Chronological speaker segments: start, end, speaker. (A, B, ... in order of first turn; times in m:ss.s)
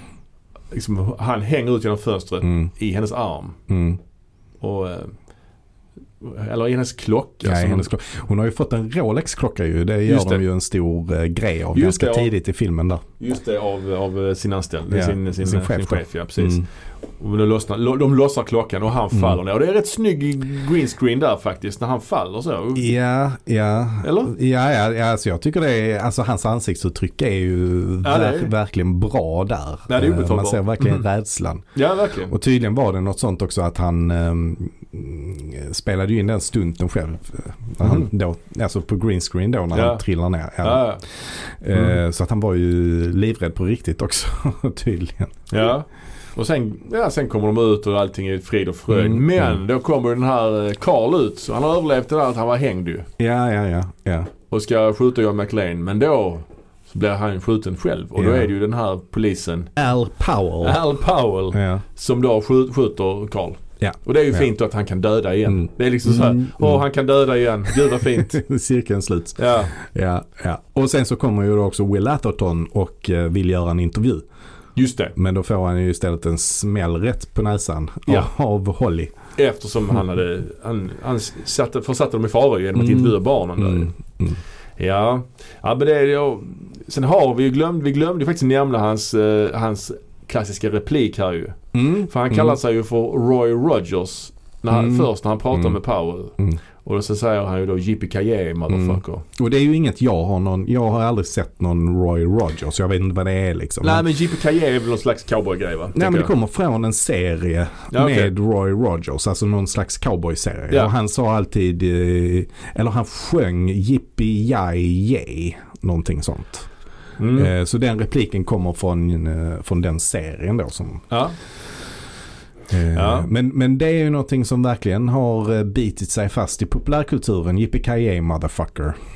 0:00.7-0:03.6 A
0:02.4-0:02.7 B
0:03.7-0:04.0 B
0:04.6-0:05.1 A
0:06.2-0:07.9 A
0:07.4-0:13.0 B
0:10.1-0:10.4 A
0:11.7-0:12.3 A
0:13.2-0:16.6 A
0:14.9-0:16.6 B
0:17.2-0:22.9 A
0:22.8-0:31.7 B
0:24.0-0:24.3 A
0:28.0-0:28.5 A
0:29.9-0:31.0 A
0:31.8-0:32.3 A
0:32.3-0:45.4 B
0:37.8-0:38.1 A
0:39.7-0:40.0 A
0:40.6-0:41.0 A
0:45.5-0:53.1 A
0:48.9-0:49.6 B
0:53.2-0:54.3 B
0:54.5-0:59.7 A
0:58.2-0:58.5 B
0:59.8-1:00.8 B
1:00.6-1:08.4 A
1:01.5-1:01.8 B
1:03.8-1:04.5 B
1:05.5-1:06.8 B
1:07.7-1:14.2 B
1:09.4-1:09.7 A
1:14.8-1:15.1 A
1:15.2-1:19.1 B
1:19.4-1:24.0 A
1:22.8-1:24.4 B
1:24.8-1:39.2 A
1:31.7-1:32.6 B
1:34.7-1:35.8 B
1:38.7-1:44.1 B
1:43.8-1:46.3 A
1:45.9-1:56.7 B
1:47.9-1:48.3 A
1:57.2-1:57.5 A
1:57.3-2:01.0 B
2:01.1-2:01.3 A
2:02.7-2:09.0 B
2:02.9-2:03.3 A